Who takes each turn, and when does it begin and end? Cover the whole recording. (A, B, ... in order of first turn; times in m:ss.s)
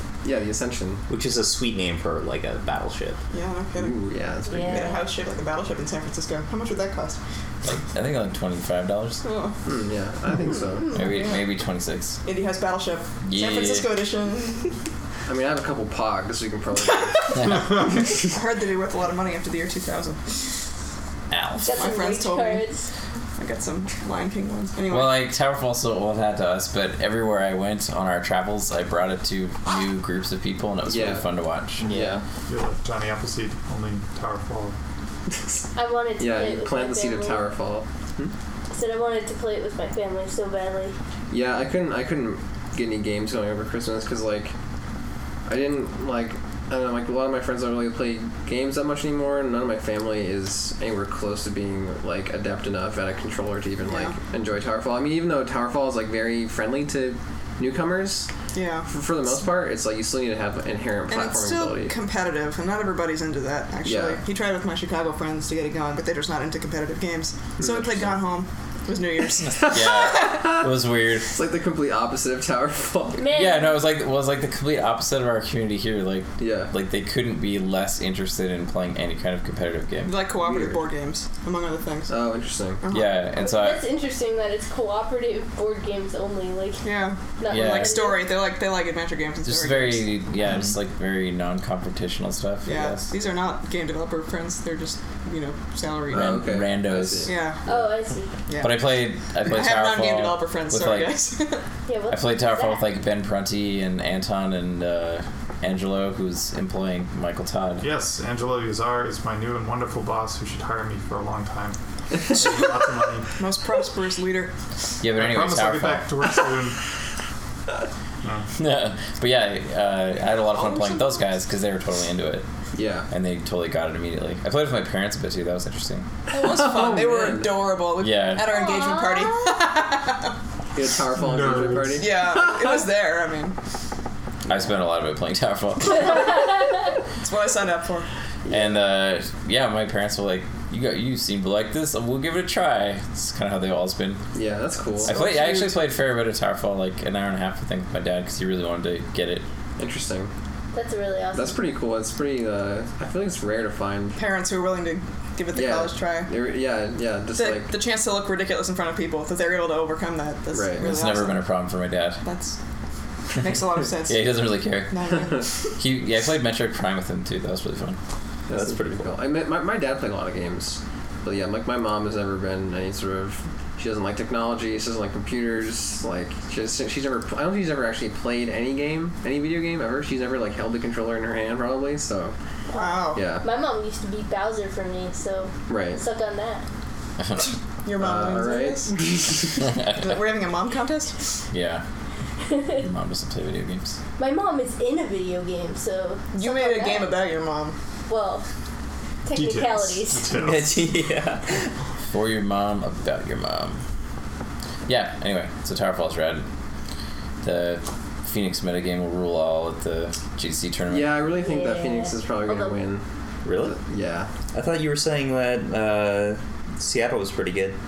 0:00.2-0:01.0 A
0:01.1-0:03.2 B
0:03.3-0:04.1 C
0:03.8-0:04.9 A
0:04.5-0:05.0 D
0:04.6-0:07.2 C
0:07.6-0:09.2 E
0:09.2-0:09.6 C
0:09.6-0:10.9 A
0:10.8-0:11.5 C
0:10.9-0:12.2 E
0:12.2-0:14.8 C
0:13.2-0:14.0 E
0:15.3-0:17.4 A
0:17.0-0:20.4 C
0:17.4-0:17.7 E
0:21.3-0:21.7 E
0:21.6-0:22.9 D
0:21.7-0:22.7 C
0:23.4-0:25.2 C
0:24.9-0:31.9 E
0:30.9-0:31.2 A
0:31.8-0:32.2 B
0:31.8-0:32.2 A
0:32.5-0:34.8 F
0:35.8-0:37.5 D
0:36.2-0:38.3 A
0:38.7-0:41.0 D
0:41.3-0:44.5 A
0:45.5-0:58.3 A
0:53.9-0:54.2 C
0:58.5-0:58.9 C
0:58.9-1:01.9 A
1:01.1-1:10.4 C
1:03.8-1:04.2 A
1:07.6-1:08.0 A
1:09.6-1:11.3 E
1:10.2-1:10.7 A
1:11.3-1:13.3 A
1:13.2-1:13.8 D
1:13.3-1:20.1 E
1:16.4-1:16.7 A
1:20.1-1:22.1 C
1:20.4-1:20.8 A
1:22.1-1:22.8 A
1:22.8-1:23.2 C
1:22.9-1:23.8 E
1:23.4-1:28.3 D
1:26.8-1:30.1 C
1:27.5-1:28.0 E
1:29.4-1:33.1 E
1:32.7-1:36.6 C
1:36.1-1:37.3 A
1:36.1-1:37.3 E
1:37.3-1:37.7 C
1:37.7-1:38.3 D
1:38.5-1:41.6 C
1:38.6-1:41.2 E
1:41.9-1:42.8 D
1:42.1-1:47.9 E
1:47.8-1:53.4 F
1:53.4-1:54.5 C
1:55.0-1:56.1 E
1:55.2-1:56.8 F
1:58.2-1:58.5 F
1:58.6-2:02.4 E
2:00.5-2:01.2 C
2:02.7-2:03.1 A
2:03.1-2:06.1 E
2:06.3-2:10.3 C
2:06.3-2:07.7 A
2:08.0-2:08.5 E
2:08.5-2:09.6 D
2:10.8-2:12.8 A
2:11.2-2:12.1 F
2:12.0-2:13.6 C
2:14.5-2:16.3 E
2:17.2-2:18.1 C
2:18.5-2:24.2 E
2:24.3-2:25.6 A
2:25.0-2:29.4 E
2:25.1-2:25.7 C
2:29.8-2:30.3 A
2:30.7-2:31.6 D
2:31.3-2:34.2 A
2:34.2-2:36.3 C
2:35.5-2:37.8 A
2:37.4-2:41.4 C
2:40.5-2:40.9 A
2:40.8-2:42.2 E
2:42.2-2:42.6 C
2:43.3-2:45.5 C
2:43.9-2:45.2 E
2:45.8-2:48.0 E
2:48.5-3:02.3 A
2:48.5-2:49.1 B
3:02.7-3:06.6 D
3:02.8-3:03.2 C
3:03.2-3:03.4 A
3:05.7-3:06.0 A
3:07.8-3:11.3 C
3:08.0-3:09.6 A
3:09.6-3:10.2 E
3:11.5-3:11.8 E
3:12.8-3:14.0 E
3:14.2-3:17.1 D
3:16.4-3:17.8 C
3:18.1-3:18.4 D
3:19.2-3:20.4 D
3:19.3-3:20.9 F
3:20.3-3:21.6 B
3:22.1-3:23.8 E
3:24.9-3:26.4 E
3:27.4-3:31.2 E
3:30.9-3:33.0 A
3:31.4-3:32.8 D
3:33.4-3:33.8 B
3:33.6-3:34.3 A
3:34.5-3:37.8 B